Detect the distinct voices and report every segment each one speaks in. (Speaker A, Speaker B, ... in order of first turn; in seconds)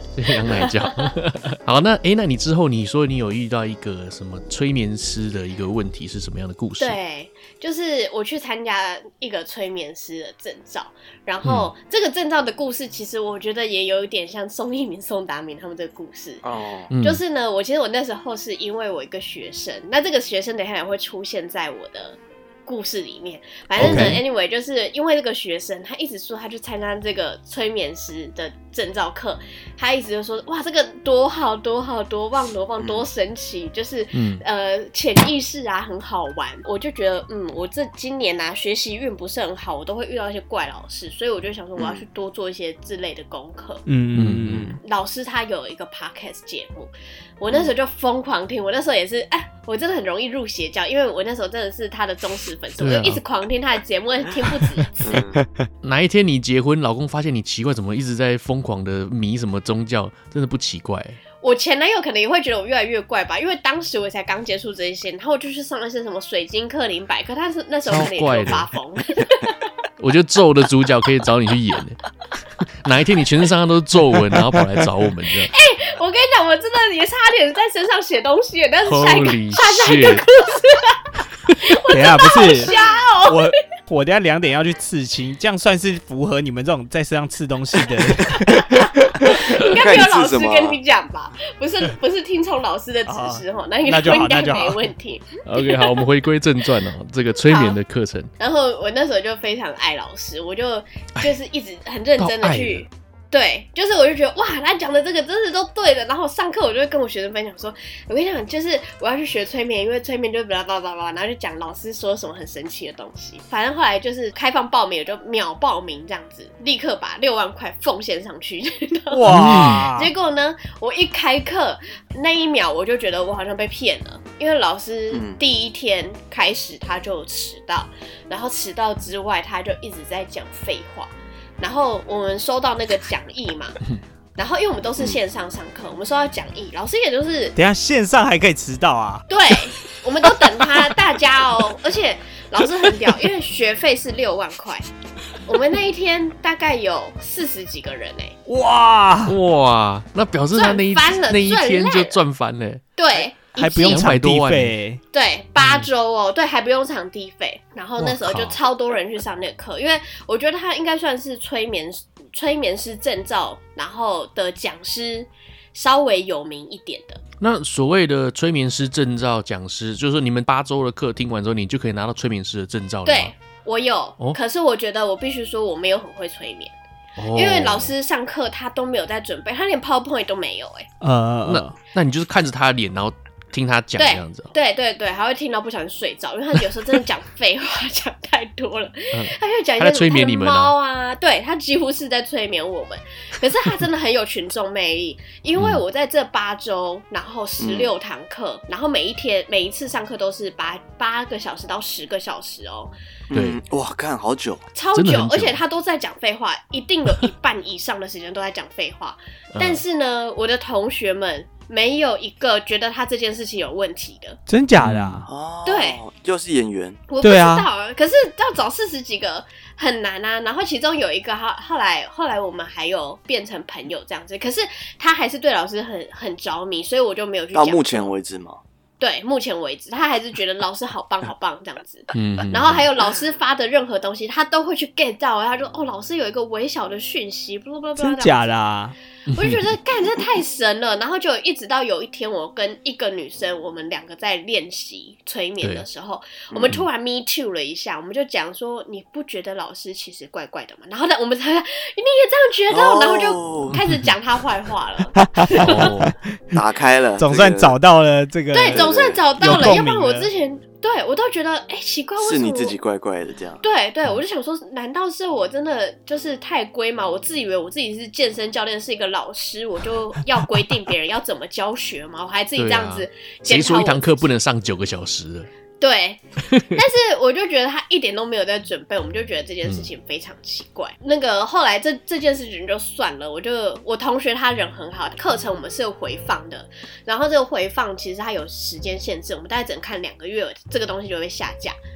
Speaker A: 0.1-7.0, 11.4-11.7, 16.9-17.2, 23.8-24.2, 34.1-34.4, 44.1-44.8, 52.8-53.2, 55.8-61.2, 67.9-68.7, 70.0-72.0, 72.8-75.5, 78.8-80.3, 95.4-98.3, 102.2-102.9, 119.3-119.9, 149.2-152.8, 153.8-154.7, 155.6-155.9, 158.0-158.6, 167.4-173.3, 177.2-177.9, 181.4-184.5, 189.1-190.7, 195.6-195.8, 203.3-203.6, 204.9-205.6, 209.5-209.8, 214.8-215.2, 232.1-232.8, 239.3-239.7, 245.6-245.8, 255.6-256.1, 272.6-275.5, 279.6-279.9
Speaker B: 0.5-1.1, 6.8-16.4, 17.0-43.8, 44.8-54.9, 61.4-69.6, 75.4-81.0, 81.6-83.4, 89.2-95.9, 97.5-97.8, 98.4-133.8, 134.4-137.5, 139.3-144.9, 145.4-148.3, 150.5-152.2, 153.0-154.1, 155.1-167.2, 173.1-176.7, 177.3-180.9, 184.0-202.9, 204.7-214.4, 215.7-216.0, 217.1-228.1, 229.0-238.6, 239.3-255.9, 258.5-262.7, 263.6-274.3, 275.8-291.8
Speaker C: 16.4-16.9, 32.8-33.1, 41.8-42.0, 55.0-55.4, 89.2-90.8, 125.1-125.4, 197.6-197.9, 203.3-204.7, 215.2-217.0, 227.5-228.6, 246.5-246.8, 252.7-253.8, 256.5-257.8, 258.6-259.2, 262.2-263.6
Speaker D: 23.8-24.2, 43.9-44.7, 55.4-55.7, 81.9-89.4, 93.1-94.8, 119.1-120.1, 137.6-139.2, 140.5-140.9, 142.9-143.3, 148.5-149.3, 153.1-155.0, 181.0-181.7, 214.5-215.3, 217.2-217.7, 238.0-238.9, 255.1-256.1, 257.2-258.9, 259.4-260.3